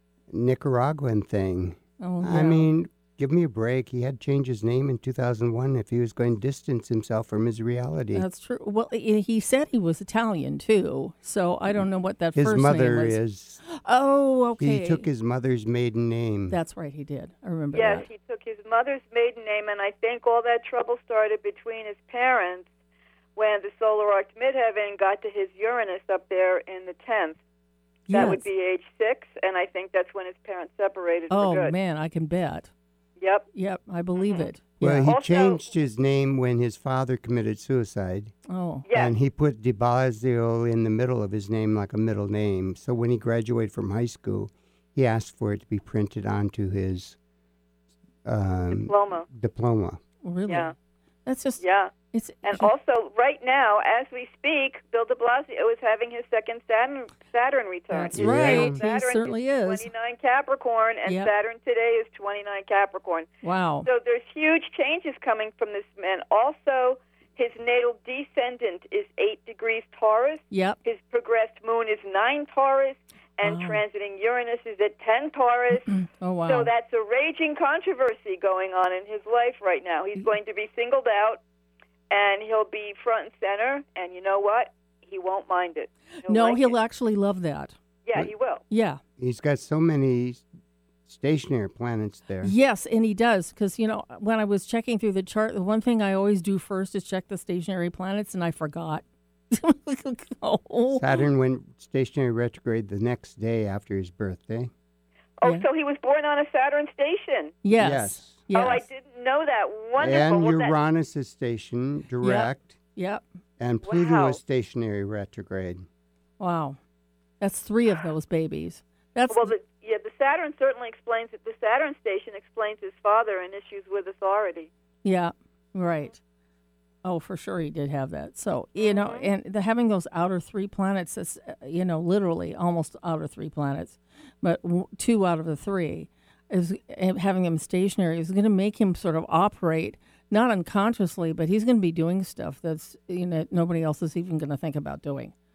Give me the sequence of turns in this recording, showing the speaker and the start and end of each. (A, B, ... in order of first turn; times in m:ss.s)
0:00.3-0:08.3 A
0:02.0-0:02.7 B
0:08.2-0:15.1 B
0:12.4-0:13.6 A
0:14.6-0:16.6 A
0:16.5-0:18.1 B
0:17.7-0:22.7 C
0:23.4-0:27.4 C
0:28.1-0:28.5 B
0:28.1-0:31.7 C
0:31.3-0:32.7 B
0:33.2-0:33.4 C
0:33.5-0:35.1 B
0:34.2-0:34.5 C
0:34.8-0:38.3 A
0:35.0-0:35.6 C
0:38.5-0:38.9 B
0:38.9-0:39.1 C
0:38.9-0:47.2 A
0:48.2-0:50.0 A
0:48.8-0:49.2 C
0:50.2-0:50.7 B
0:50.5-0:50.7 C
0:51.3-0:51.6 B
0:51.6-0:51.9 C
0:52.1-0:52.7 B
0:52.4-1:03.3 C
0:57.9-0:59.9 B
0:58.1-0:58.8 A
1:01.1-1:01.3 B
1:03.4-1:03.9 B
1:03.8-1:15.9 C
1:10.5-1:10.8 B
1:13.4-1:13.8 B
1:15.9-1:16.7 B
1:16.5-1:21.4 C
1:22.1-1:26.8 C
1:26.2-1:27.8 B
1:28.1-1:28.6 C
1:28.7-1:29.0 B
1:29.2-1:30.4 A
1:31.1-1:32.5 A
1:32.4-1:41.2 B
1:40.9-1:44.7 A
1:45.4-1:47.6 C
1:47.6-1:48.9 B
1:47.8-1:48.4 A
1:48.5-1:50.7 C
1:50.0-1:52.8 A
1:52.2-1:53.2 B
1:53.6-1:55.8 A
1:53.8-1:54.4 C
1:56.4-1:56.8 B
1:57.4-1:59.5 B
1:59.3-2:04.7 C
2:05.0-2:06.2 B
2:07.0-2:25.3 B
2:08.8-2:09.3 C